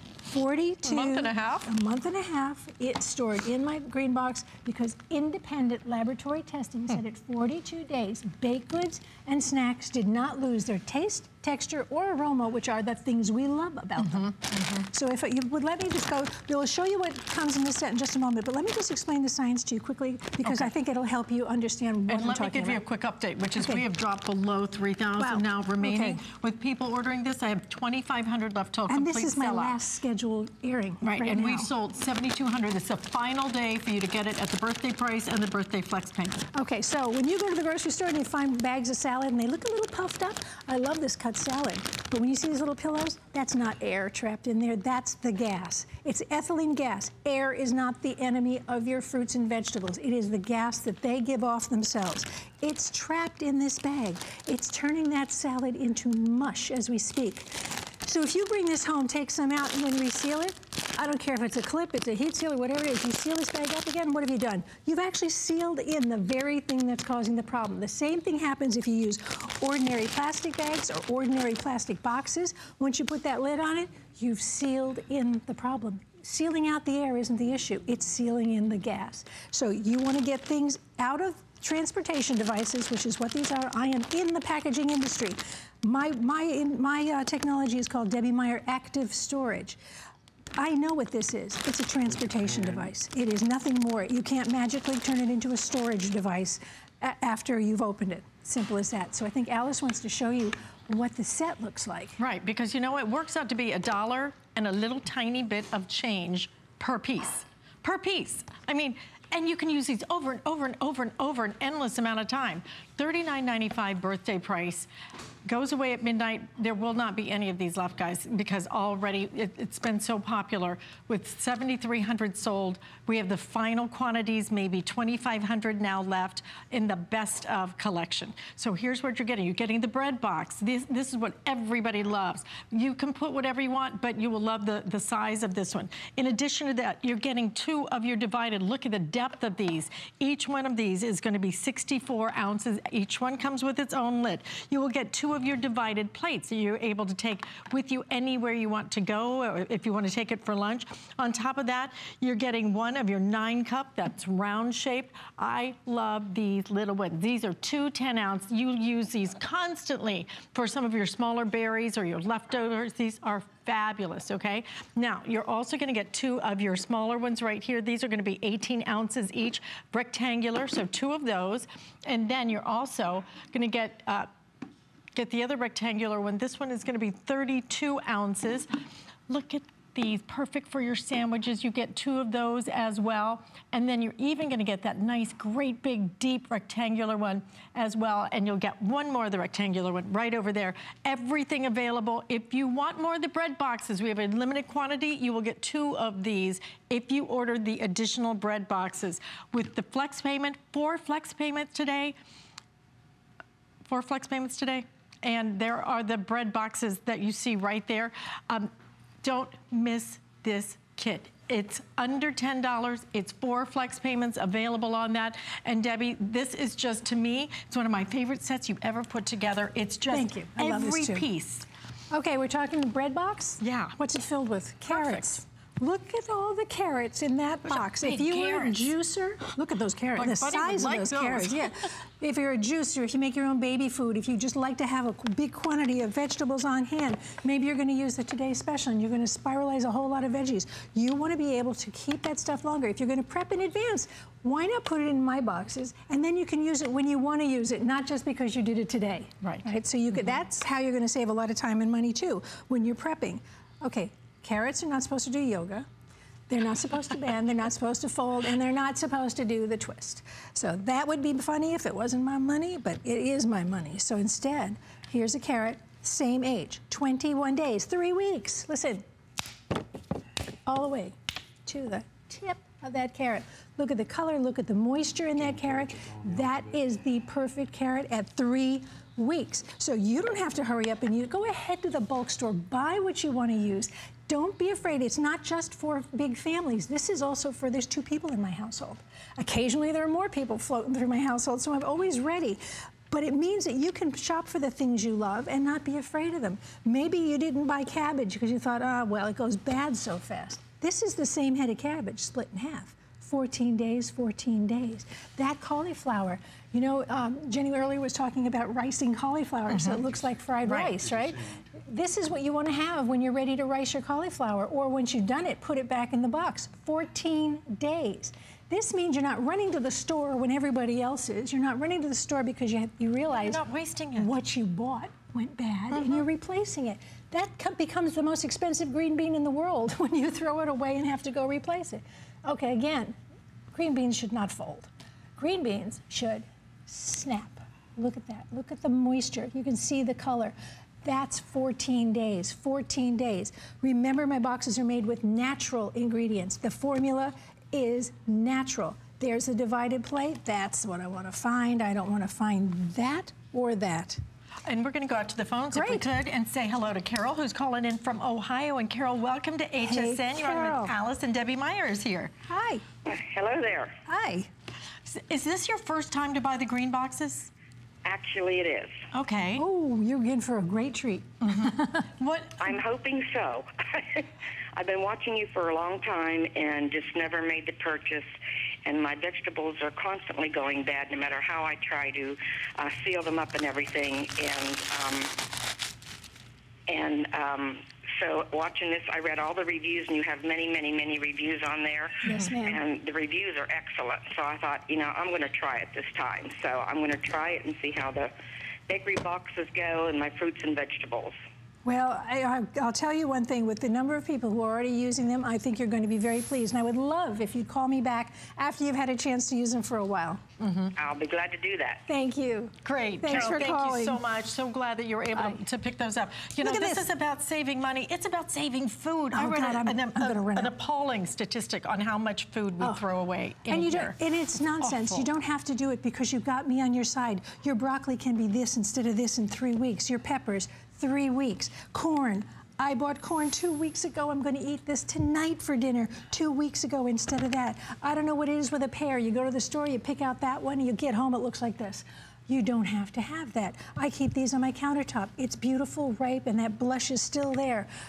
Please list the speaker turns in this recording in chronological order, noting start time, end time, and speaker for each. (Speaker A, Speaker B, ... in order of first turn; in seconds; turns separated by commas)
Speaker A: 0.2-22.8, Speaker B: 0.8-1.7, Speaker B: 14.0-14.8, Speaker B: 20.4-20.7, Speaker B: 22.1-29.8, Speaker A: 23.6-23.8, Speaker A: 25.2-26.2, Speaker A: 28.9-31.7, Speaker B: 31.0-36.5, Speaker A: 36.5-89.8, Speaker A: 90.6-102.2, Speaker B: 102.2-114.9, Speaker B: 115.5-174.3, Speaker B: 175.1-178.7, Speaker B: 179.3-202.2, Speaker B: 203.8-208.7, Speaker B: 209.2-221.7, Speaker A: 220.1-221.2, Speaker A: 222.1-255.9, Speaker B: 223.6-223.9, Speaker B: 224.9-225.4, Speaker B: 227.7-228.9, Speaker B: 230.2-231.8, Speaker A: 256.5-269.0, Speaker A: 270.7-323.6, Speaker B: 310.7-310.9, Speaker B: 323.4-324.3, Speaker A: 324.2-333.1, Speaker A: 333.7-354.2, Speaker B: 354.6-362.3, Speaker A: 355.7-356.1, Speaker A: 359.8-360.9, Speaker A: 362.5-362.8, Speaker C: 363.1-363.9, Speaker A: 364.1-364.5, Speaker B: 365.1-367.5, Speaker C: 368.0-369.0, Speaker B: 369.1-369.6, Speaker A: 369.6-372.1, Speaker B: 371.4-372.6, Speaker C: 372.6-378.3, Speaker C: 378.9-385.3, Speaker C: 386.9-398.3, Speaker A: 392.2-392.8, Speaker C: 398.9-401.4, Speaker A: 401.8-410.4, Speaker B: 410.6-410.9, Speaker C: 410.9-412.0, Speaker A: 412.1-414.2, Speaker B: 412.8-424.1, Speaker A: 415.3-415.6, Speaker A: 416.6-417.1, Speaker A: 419.3-420.7, Speaker A: 423.7-447.9, Speaker B: 424.8-425.3